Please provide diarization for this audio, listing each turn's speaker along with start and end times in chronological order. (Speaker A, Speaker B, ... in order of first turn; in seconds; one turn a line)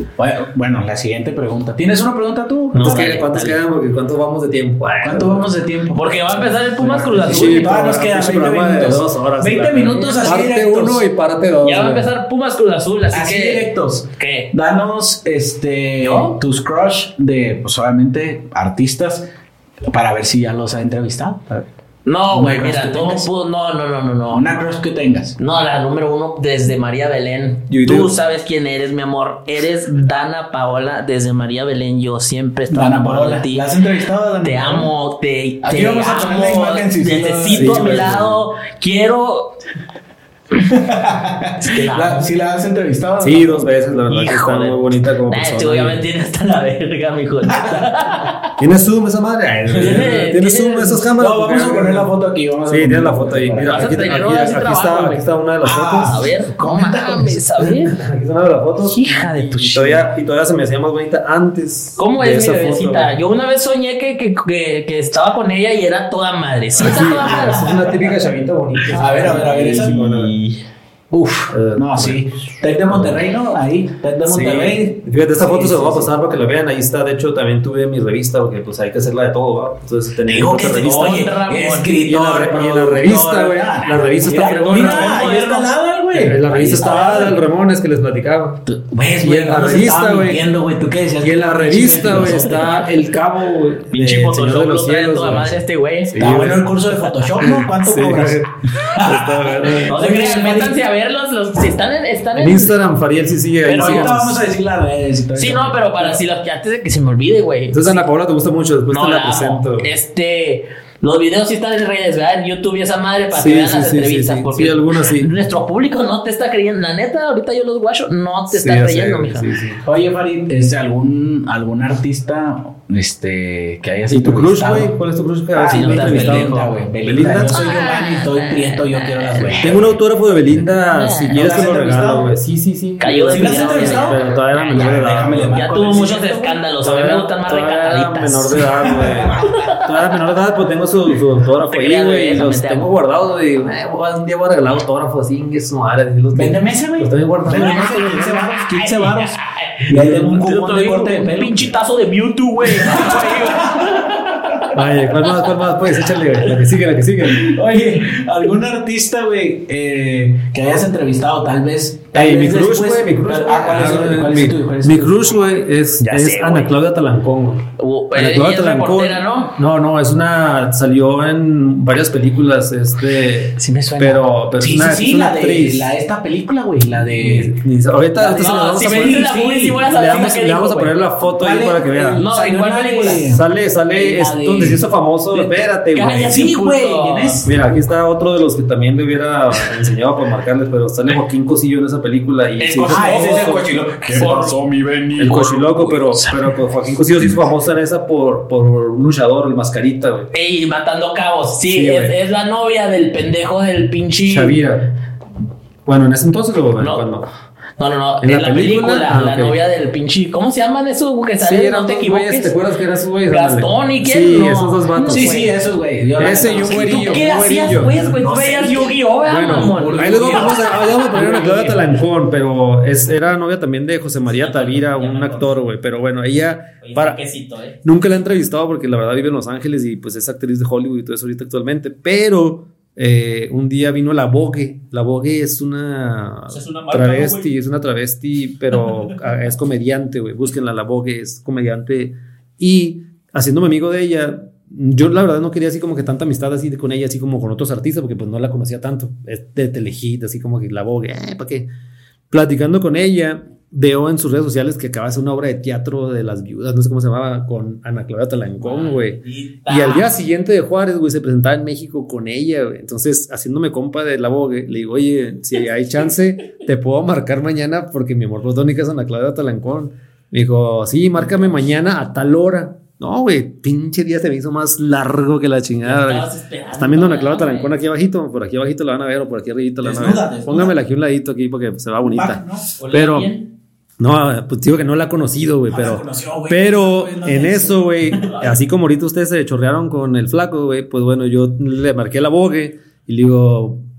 Speaker A: 0.2-3.2
Speaker B: 2.7-5.5
Speaker C: 2.7-3.6
Speaker A: 5.0-6.2
Speaker C: 5.9-7.8
Speaker B: 6.8-12.1
Speaker A: 7.1-11.1
Speaker C: 10.1-10.4
Speaker C: 11.6-14.5
Speaker A: 13.1-19.3
Speaker C: 16.0-16.4
Speaker A: 19.9-21.7
Speaker C: 22.1-24.6
Speaker A: 22.3-23.3
Speaker A: 24.3-25.4
Speaker C: 25.4-33.6
Speaker B: 27.7-28.2
Speaker A: 32.7-34.9
Speaker C: 34.4-39.6
Speaker A: 35.6-38.0
Speaker B: 37.5-38.5
Speaker A: 40.6-44.7
Speaker C: 41.6-42.3
Speaker B: 43.2-46.0
Speaker C: 45.3-48.5
Speaker A: 47.5-47.9
Speaker B: 48.6-52.1
Speaker C: 49.8-51.1
Speaker A: 51.2-54.1
Speaker B: 52.7-56.2
Speaker C: 53.7-55.2
Speaker A: 55.6-57.4
Speaker C: 56.0-58.0
Speaker B: 57.9-63.1
Speaker C: 58.8-60.1
Speaker C: 62.0-67.8
Speaker B: 66.8-70.3
Speaker A: 67.3-67.8
Speaker C: 68.9-70.6
Speaker A: 68.9-70.1
Speaker A: 71.1-76.1
Speaker B: 71.5-72.2
Speaker B: 72.9-73.2
Speaker B: 74.3-81.3
Speaker A: 80.3-87.4
Speaker C: 80.8-82.0
Speaker B: 82.0-85.4
Speaker C: 84.3-85.7
Speaker B: 86.1-90.5
Speaker A: 88.7-92.8
Speaker B: 91.2-96.7
Speaker C: 92.3-92.8
Speaker C: 93.9-96.2
Speaker A: 96.2-100.8
Speaker B: 97.4-100.0
Speaker C: 99.9-102.8
Speaker B: 102.4-104.4
Speaker C: 103.7-104.2
Speaker A: 103.7-106.2
Speaker C: 105.3-108.0
Speaker B: 107.7-109.9
Speaker C: 108.9-119.5
Speaker B: 113.3-115.3
Speaker B: 118.5-119.8
Speaker A: 119.8-125.0
Speaker B: 124.1-127.8
Speaker A: 125.5-129.8
Speaker C: 125.7-126.7
Speaker C: 127.5-129.8
Speaker B: 129.6-136.0
Speaker C: 130.9-131.4
Speaker A: 131.3-132.3
Speaker C: 133.0-135.0
Speaker A: 133.3-134.2
Speaker A: 134.7-136.6
Speaker C: 135.5-138.6
Speaker B: 136.8-148.5
Speaker A: 138.9-139.4
Speaker C: 139.5-139.8
Speaker C: 141.7-142.9
Speaker A: 146.3-149.3
Speaker C: 148.7-154.6
Speaker A: 149.9-151.7
Speaker B: 149.9-150.4
Speaker A: 152.7-154.0
Speaker B: 154.7-157.5
Speaker A: 157.3-165.2
Speaker B: 162.1-175.9
Speaker C: 166.0-166.7
Speaker C: 167.8-169.6
Speaker C: 173.6-174.2
Speaker A: 174.6-177.5
Speaker B: 176.9-179.3
Speaker C: 178.2-180.9
Speaker A: 178.8-180.4
Speaker B: 179.8-182.2
Speaker A: 181.4-183.4
Speaker C: 182.2-183.3
Speaker B: 183.2-186.4
Speaker C: 184.0-184.8
Speaker C: 185.3-187.4
Speaker A: 186.2-187.6
Speaker B: 187.4-194.6
Speaker C: 192.6-193.6
Speaker A: 192.8-196.4
Speaker C: 194.2-194.6
Speaker B: 195.2-200.3
Speaker C: 200.3-204.6
Speaker B: 201.7-202.2
Speaker B: 204.3-204.9
Speaker B: 205.9-207.3
Speaker C: 206.8-207.1
Speaker C: 207.8-212.6
Speaker B: 208.2-209.6
Speaker B: 211.4-215.4
Speaker C: 213.3-215.5
Speaker A: 215.0-219.0
Speaker B: 216.2-218.2
Speaker C: 216.6-221.2
Speaker B: 219.3-227.2
Speaker A: 219.5-221.8
Speaker C: 224.3-225.6
Speaker C: 226.8-227.8
Speaker B: 227.8-251.7
Speaker C: 236.5-237.5
Speaker B: 252.3-283.3
Speaker C: 258.6-260.1
Speaker C: 275.8-277.7
Speaker A: 279.8-280.8
Speaker A: 282.0-282.7
Speaker C: 282.8-283.5
Speaker B: 284.0-293.9
Speaker A: 285.7-288.3